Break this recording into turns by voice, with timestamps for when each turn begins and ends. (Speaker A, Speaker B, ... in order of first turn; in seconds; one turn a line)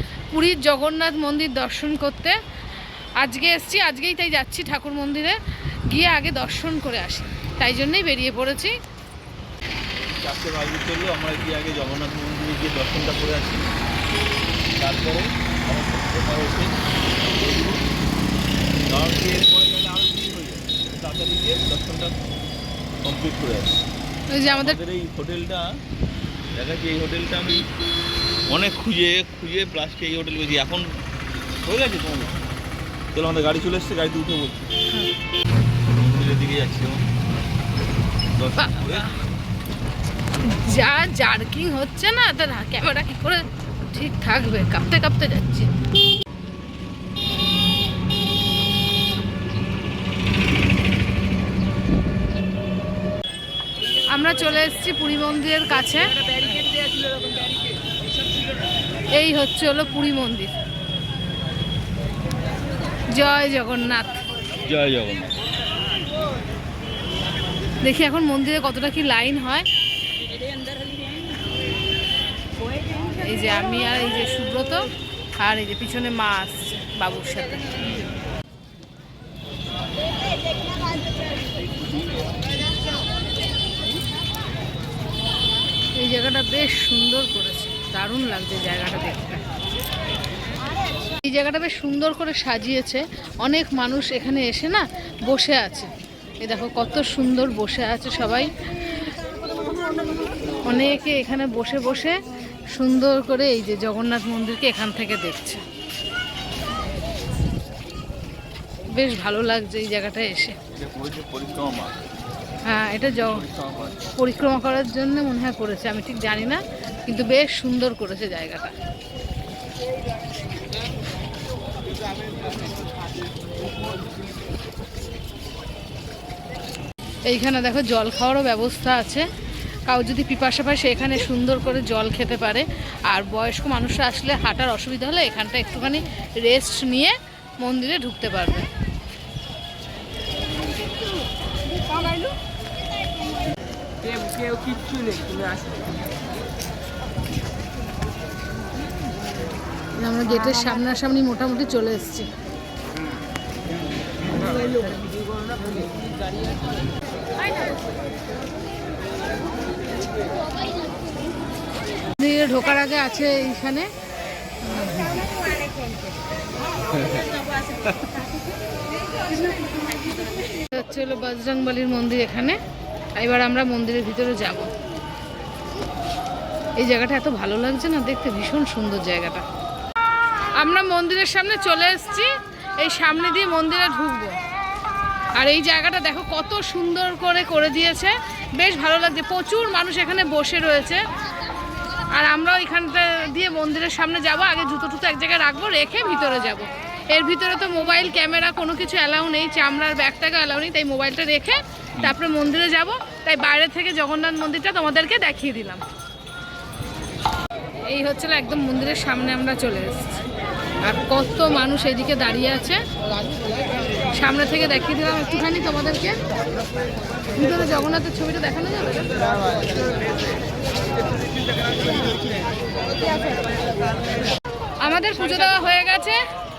Speaker A: 0.3-2.3
Speaker A: 3.2-5.3
Speaker A: 5.9-8.7
Speaker B: 10.0-13.7
Speaker B: 14.8-16.7
Speaker B: 17.3-17.8
Speaker B: 18.9-22.1
Speaker B: 23.0-23.8
Speaker A: 24.3-24.8
Speaker B: 24.4-25.7
Speaker B: 26.6-27.6
Speaker B: 28.5-30.8
Speaker B: 31.6-32.3
Speaker B: 33.1-34.7
Speaker B: 36.0-37.0
Speaker B: 38.4-39.1
Speaker A: 38.6-39.1
Speaker A: 40.5-45.7
Speaker A: 53.9-56.2
Speaker C: 56.4-57.4
Speaker A: 59.1-60.5
Speaker A: 63.1-64.2
Speaker B: 64.6-65.3
Speaker A: 67.8-69.7
Speaker A: 73.1-74.9
Speaker A: 75.4-77.6
Speaker B: 81.5-82.5
Speaker A: 86.0-89.4
Speaker A: 91.2-95.9
Speaker A: 96.4-98.5
Speaker A: 100.6-102.2
Speaker A: 102.7-105.6
Speaker A: 108.9-110.5
Speaker B: 110.7-111.9
Speaker A: 112.6-113.4
Speaker B: 113.0-114.1
Speaker A: 114.2-118.7
Speaker A: 127.3-129.2
Speaker A: 129.9-138.7
Speaker C: 144.1-145.4
Speaker A: 150.0-152.3
Speaker A: 162.2-163.9
Speaker A: 164.6-165.2
Speaker A: 170.7-172.6
Speaker A: 173.2-174.7
Speaker A: 176.8-179.4
Speaker A: 180.6-182.3
Speaker A: 182.8-184.4
Speaker A: 185.3-191.0
Speaker A: 192.1-205.8
Speaker A: 207.9-210.2
Speaker A: 210.8-212.8
Speaker A: 214.1-216.2
Speaker A: 217.3-219.2
Speaker A: 224.8-226.2